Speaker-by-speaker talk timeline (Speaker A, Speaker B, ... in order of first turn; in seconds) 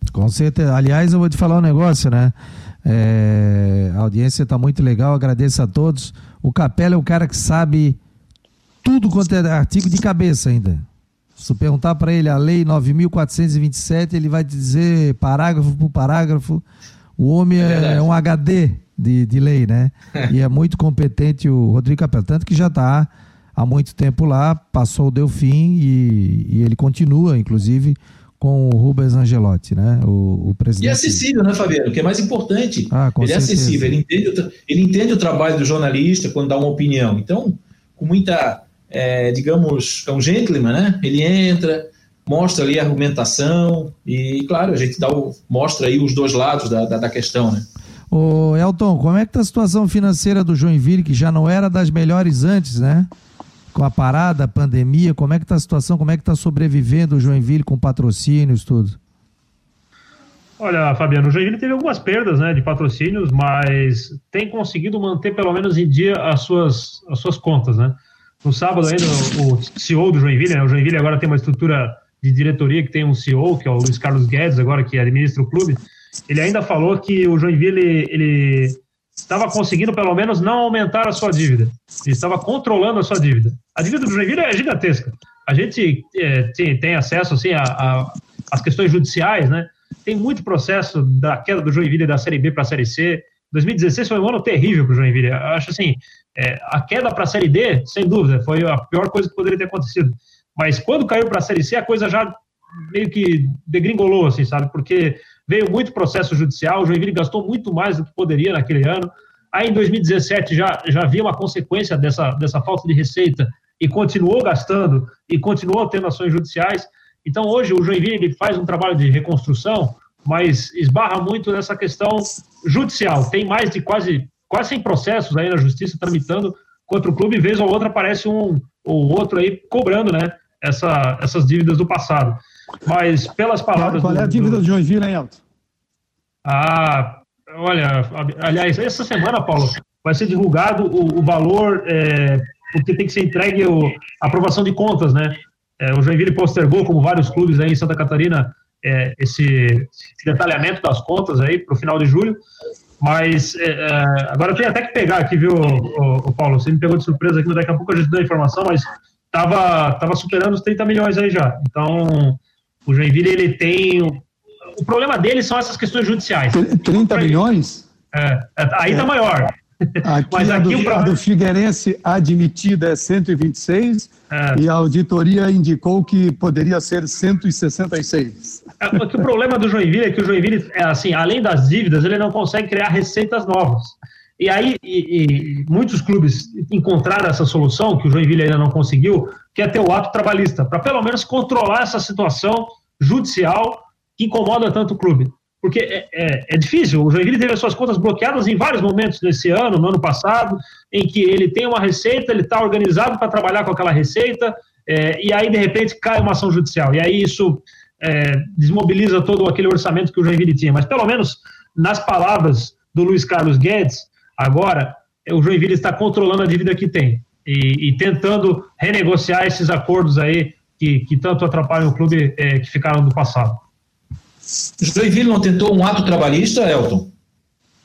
Speaker A: 0.1-8.0, 8.8-10.8, 11.4-16.6, 17.2-31.2, 32.9-34.0, 48.1-53.1, 53.7-59.0
Speaker B: 17.6-18.1, 30.8-47.6, 224.8-227.1
Speaker C: 60.6-134.6, 136.4-152.4, 153.0-164.2, 164.8-167.4, 168.1-171.2, 174.3-174.6, 178.8-223.6
Speaker D: 133.7-135.4, 166.5-167.8, 170.0-178.6